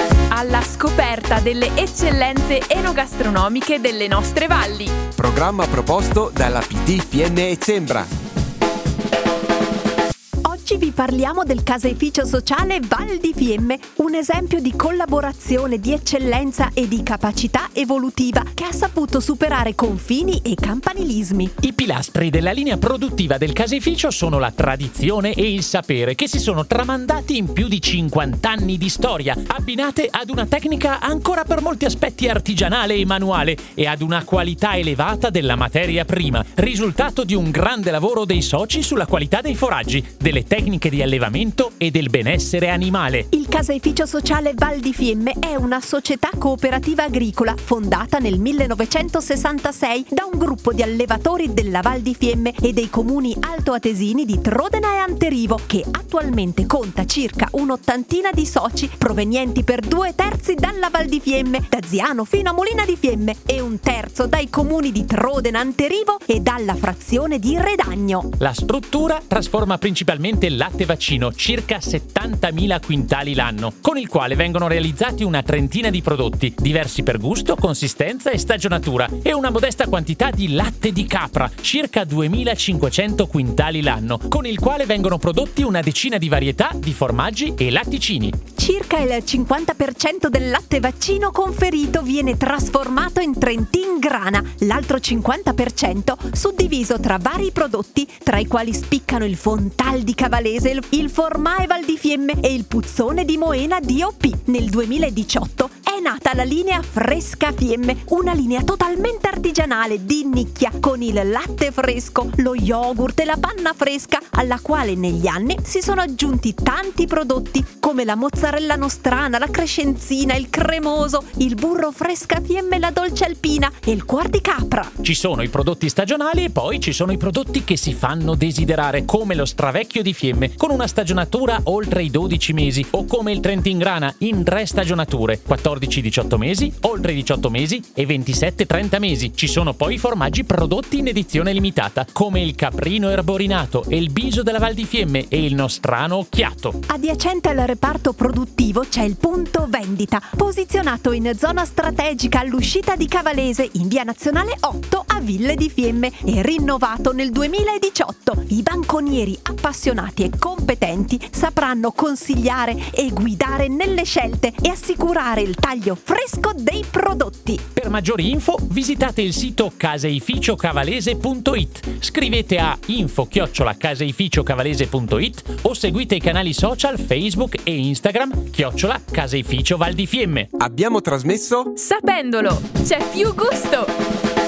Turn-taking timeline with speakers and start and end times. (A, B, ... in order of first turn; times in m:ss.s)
0:00.3-0:05.0 A
0:05.2-0:08.1 B
0:10.4-0:21.5 C
0:21.6-0:43.3 D
0:43.3-1:08.3 C
1:08.4-1:28.4 D
1:28.6-2:04.9 C
2:05.0-2:26.8 D
2:26.9-2:47.6 C
2:47.8-3:00.5 D
3:00.6-3:01.7 B
3:01.8-3:03.9 A